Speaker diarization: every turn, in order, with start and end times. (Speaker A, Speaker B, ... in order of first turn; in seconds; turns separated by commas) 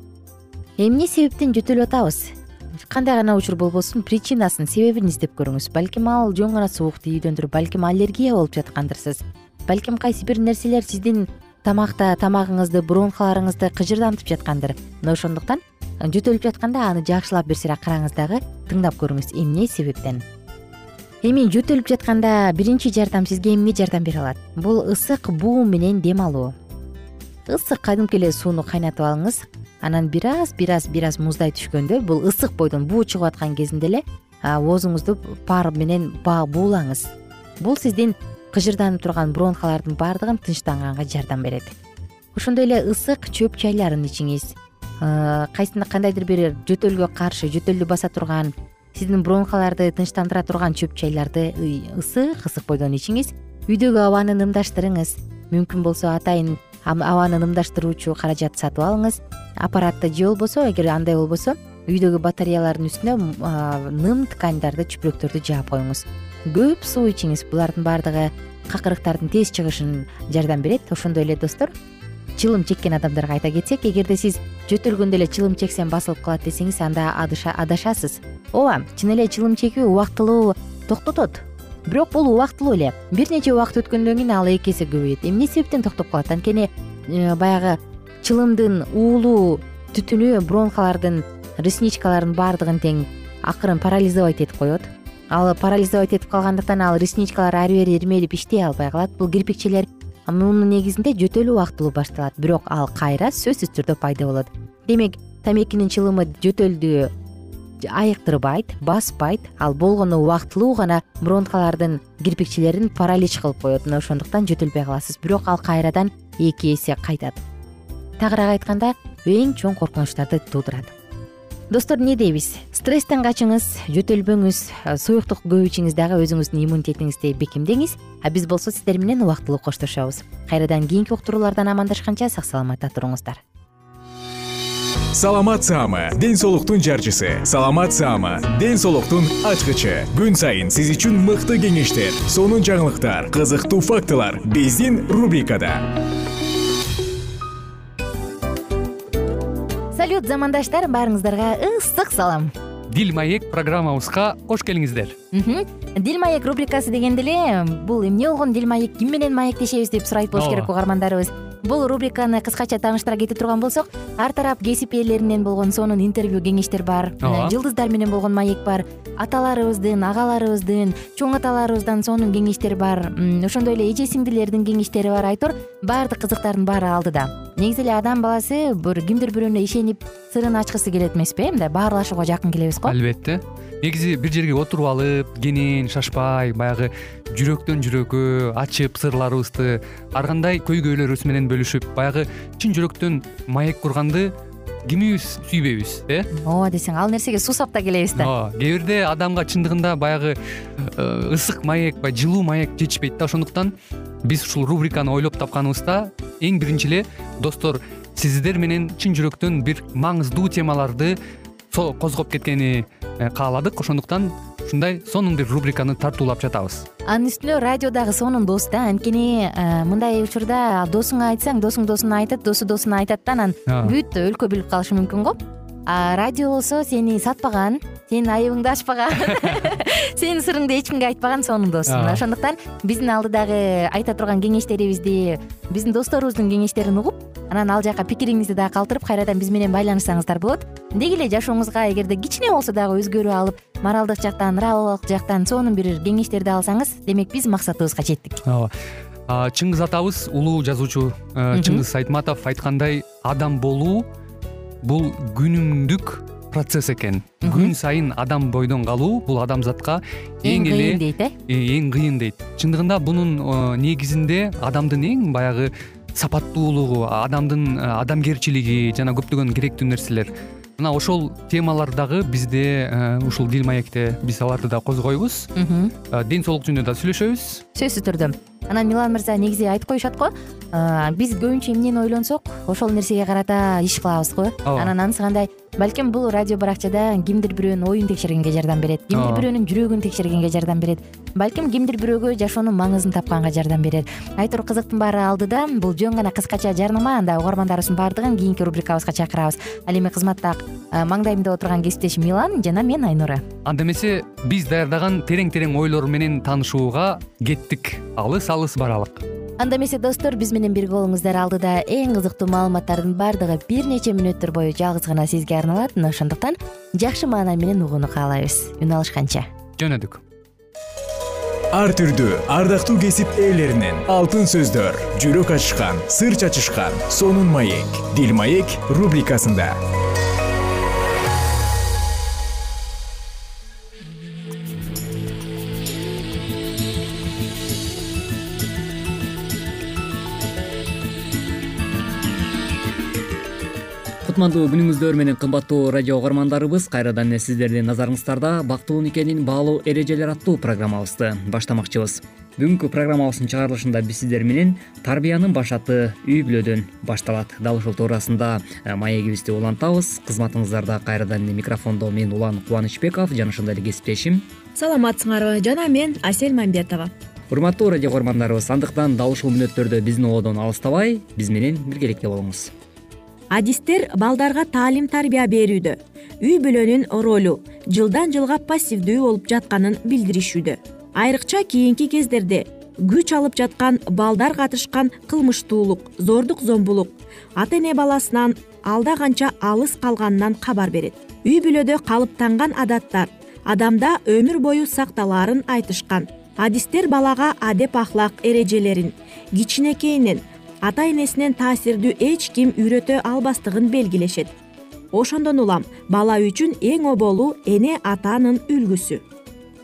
Speaker A: 0.8-20.2, Speaker A: 21.2-26.5, Speaker A: 27.4-41.7, Speaker A: 42.3-71.7, Speaker A: 72.3-107.1, Speaker A: 107.8-117.4, Speaker A: 118.2-120.9, Speaker A: 121.7-133.4, Speaker B: 135.1-145.9, Speaker A: 149.9-152.5, Speaker C: 152.9-155.2, Speaker A: 155.3-182.9, Speaker C: 160.3-160.7, Speaker C: 167.2-167.6, Speaker C: 182.8-194.3, Speaker C: 194.8-196.3, Speaker A: 196.3-198.3, Speaker C: 198.2-203.7, Speaker C: 204.2-211.2, Speaker C: 211.7-216.8, Speaker A: 217.1-248.4, Speaker C: 223.7-223.9, Speaker C: 231.9-232.2, Speaker C: 248.4-248.7, Speaker C: 249.3-254.1, Speaker A: 251.5-251.8, Speaker C: 254.8-275.5, Speaker A: 257.4-257.7, Speaker A: 260.4-261.3, Speaker A: 275.6-275.9, Speaker C: 276.1-277.6, Speaker A: 277.7-303.4, Speaker C: 284.6-284.9, Speaker C: 289.1-289.5, Speaker C: 303.6-309.2, Speaker A: 309.6-319.5, Speaker C: 319.8-320.2, Speaker B: 321.7-329.7, Speaker D: 344.2-364.4, Speaker E: 364.8-367.1, Speaker D: 367.5-372.7, Speaker E: 373.5-404.5, Speaker E: 405.1-409.2